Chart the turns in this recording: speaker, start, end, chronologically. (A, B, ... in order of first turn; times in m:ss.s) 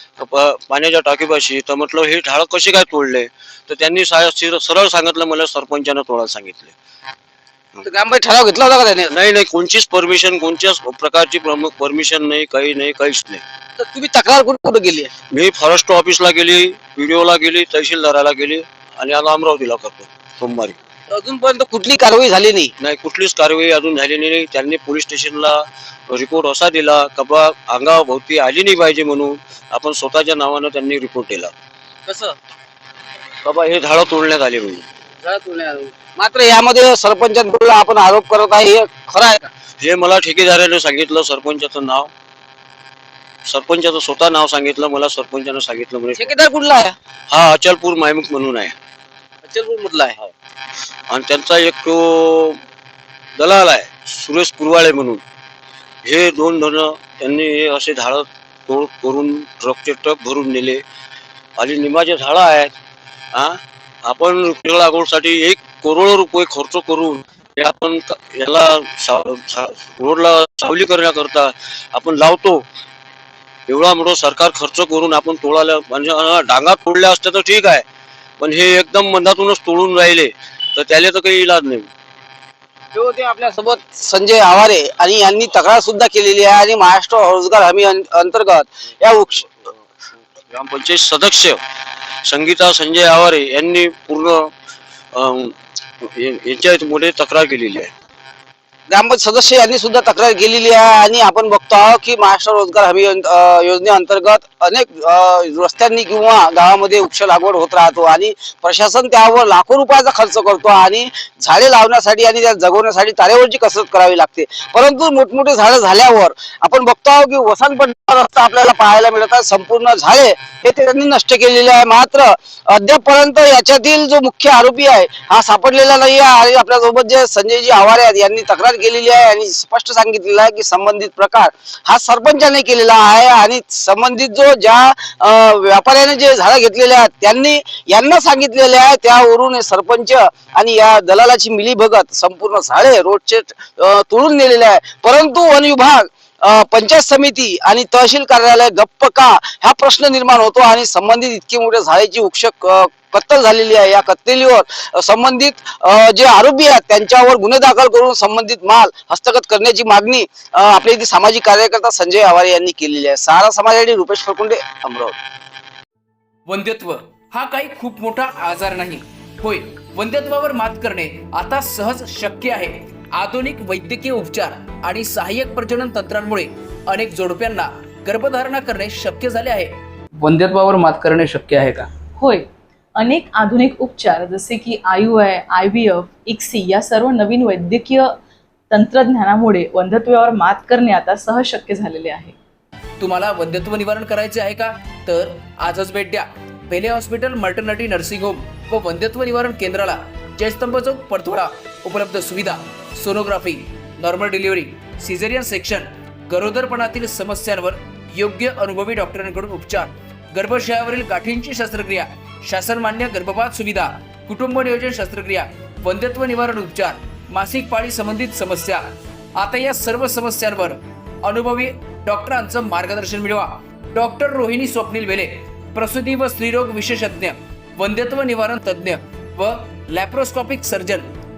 0:00.2-0:06.7 A
0:07.8-0:09.1 B
0:09.1-0:13.4 A
0:13.8-0:15.1 B
0:15.3-0:20.8 A
0:21.1-0:22.7 B
0:22.8-0:31.5 A
0:32.1-0:32.3 B
0:33.4-0:34.9 A
0:35.2-0:39.4 B
0:39.8-0:42.1 A
0:43.5-0:46.3 A
0:46.2-0:47.0 B
0:47.3-0:48.7 A
0:49.4-0:50.2 B
0:51.1-0:52.6 A
0:53.4-0:55.2 A
0:56.0-1:00.8 A
1:01.6-1:02.7 A
1:03.3-1:12.6 A
1:13.7-1:17.8 A
1:18.4-1:21.9 A
1:22.9-1:29.5 B
1:30.5-1:31.6 A
1:32.2-1:34.5 A
1:35.1-1:37.9 A
1:38.9-2:45.2 B
2:46.5-3:01.9 C
3:02.2-3:08.1 D
3:08.7-3:12.4 D
3:13.0-3:38.8 C
3:39.4-3:51.1 C